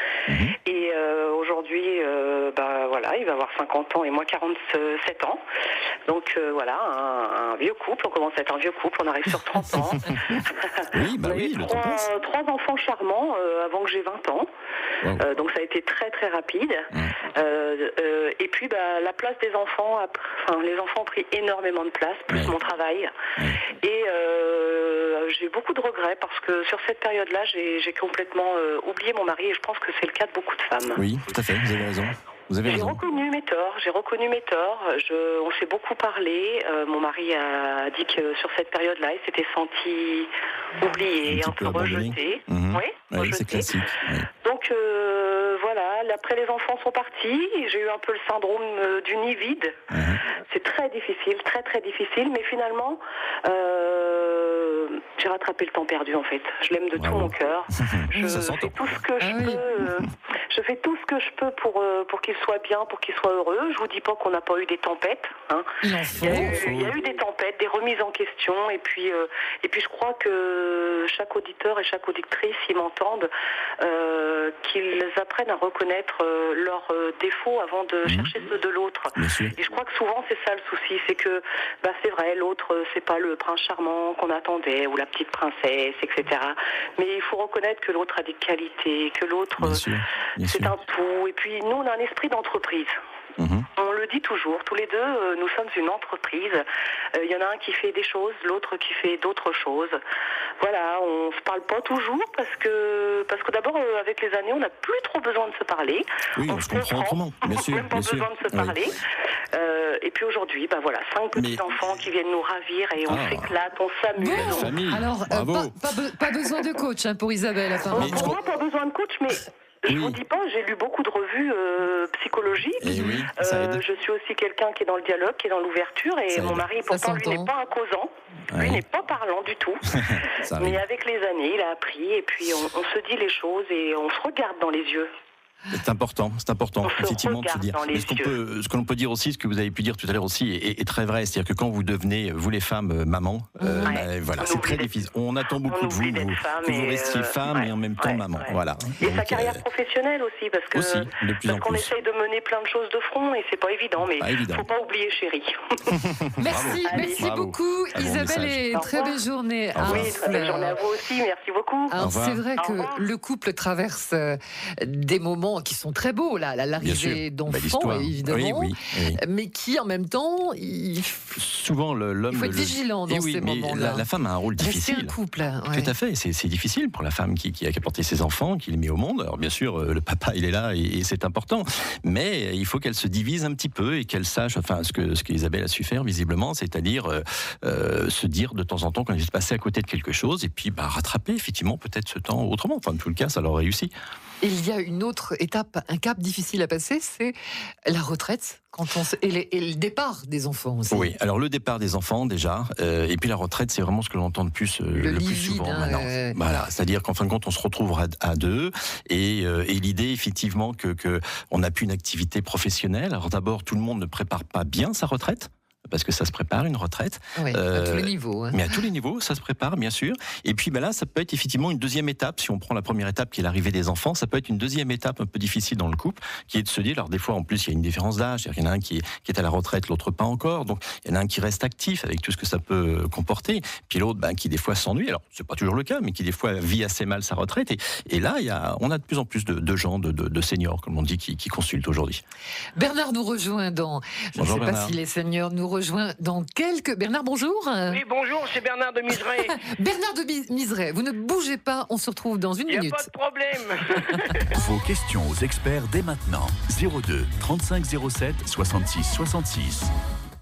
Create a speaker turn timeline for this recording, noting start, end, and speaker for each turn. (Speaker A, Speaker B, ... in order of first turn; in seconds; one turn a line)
Speaker A: 0.3-0.6
Speaker B: 0.7-5.4
Speaker B: 6.1-14.5
Speaker A: 10.3-12.1
Speaker B: 15.2-23.1
Speaker A: 22.3-22.6
Speaker B: 23.8-31.0
Speaker A: 30.9-33.0
Speaker B: 32.6-43.8
Speaker A: 41.2-44.3
Speaker B: 44.4-49.8
Speaker A: 49.9-50.2
Speaker B: 50.5-89.8
Speaker A: 57.0-58.8
Speaker C: 58.1-58.4
Speaker C: 59.2-59.6
Speaker C: 65.8-66.6
Speaker A: 66.2-67.0
Speaker A: 78.0-78.3
Speaker A: 79.2-79.6
Speaker A: 89.6-90.7
Speaker B: 90.4-92.9
Speaker A: 93.4-93.7
Speaker B: 93.8-100.0
Speaker B: 100.6-109.0
Speaker A: 106.3-108.8
Speaker B: 109.5-114.8
Speaker A: 111.3-111.6
Speaker A: 113.0-113.5
Speaker C: 114.2-118.3
Speaker A: 114.3-115.7
Speaker A: 117.9-118.4
Speaker B: 117.9-129.9
Speaker A: 119.9-120.2
Speaker A: 122.8-123.8
Speaker C: 123.0-123.2
Speaker A: 126.3-126.7
Speaker C: 126.9-127.5
Speaker A: 128.5-128.8
Speaker A: 130.0-130.8
Speaker B: 130.4-135.1
Speaker A: 135.7-149.6
Speaker B: 136.8-138.3
Speaker C: 143.6-144.0
Speaker B: 143.8-144.9
Speaker B: 145.6-156.0
Speaker A: 150.7-151.9
Speaker A: 154.2-154.7
Speaker A: 155.9-158.8
Speaker C: 156.4-160.8
Speaker B: 156.9-157.2
Speaker B: 158.8-159.2
Speaker A: 159.8-160.1
Speaker B: 159.8-162.0
Speaker C: 161.9-171.4
Speaker A: 162.0-162.4
Speaker B: 162.6-163.0
Speaker A: 166.8-169.2
Speaker A: 171.3-175.2
Speaker C: 172.3-174.1
Speaker C: 174.6-175.9
Speaker A: 175.7-193.9
Speaker C: 194.4-197.3
Speaker C: 197.9-201.1
Speaker A: 200.9-242.2
Speaker C: 205.0-206.4
Speaker C: 217.4-218.6
Speaker C: 242.8-248.0
Speaker A: 244.4-245.0
Speaker D: 247.9-249.6
Speaker C: 249.4-253.1
Speaker D: 252.7-254.5
Speaker E: 254.6-259.9